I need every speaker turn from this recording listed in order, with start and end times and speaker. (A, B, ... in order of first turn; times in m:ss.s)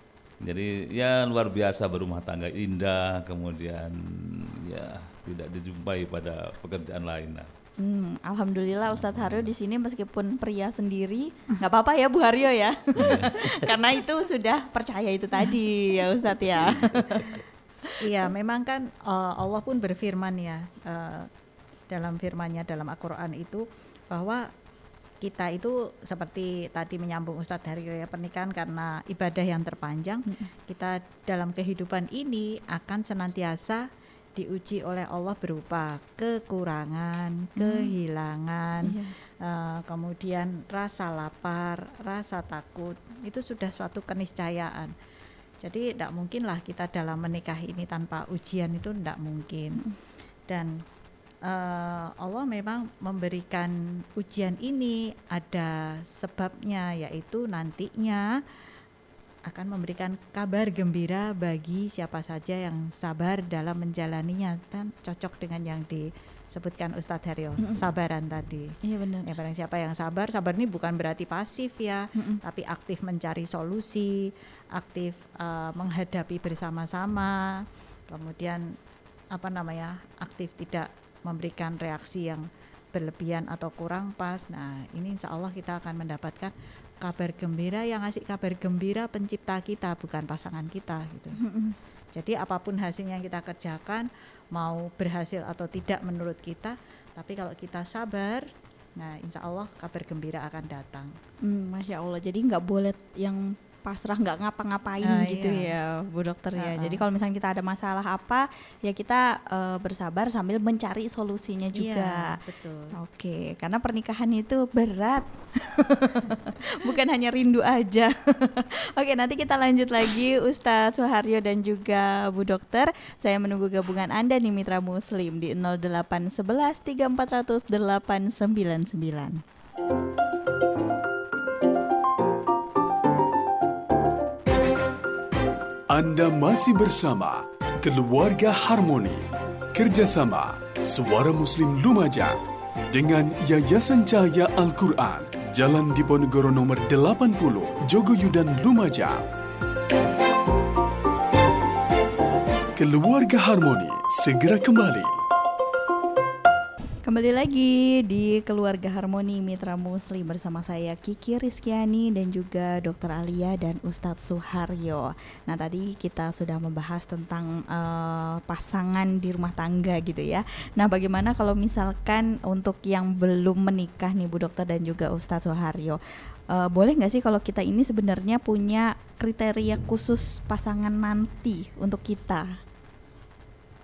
0:00.4-0:07.5 A
0:07.8-0:17.9 B
0:08.9-0:09.5 A
0:13.0-0:13.7 A
0:16.7-0:17.2 A
0:18.0-0:21.3 C
0:21.9-0:24.5 C
0:25.2-0:44.9 C
0:37.6-0:37.9 B
0:38.8-0:39.1 B
0:45.6-0:49.8 C
0:50.5-0:50.8 C
0:51.4-0:58.3 C
0:59.5-1:18.8 C
1:08.8-1:09.3 B
1:19.3-1:31.4 C
1:31.4-1:31.8 B
1:32.1-1:41.1 C
1:41.4-1:52.4 B
1:45.0-1:45.7 C
1:46.6-1:47.0 C
1:51.7-1:52.9 C
1:52.9-2:09.4 B
2:15.9-2:22.4 D
2:22.9-2:29.2 D
2:32.8-2:35.2 D
2:37.0-2:56.0 B
2:56.5-3:02.6 B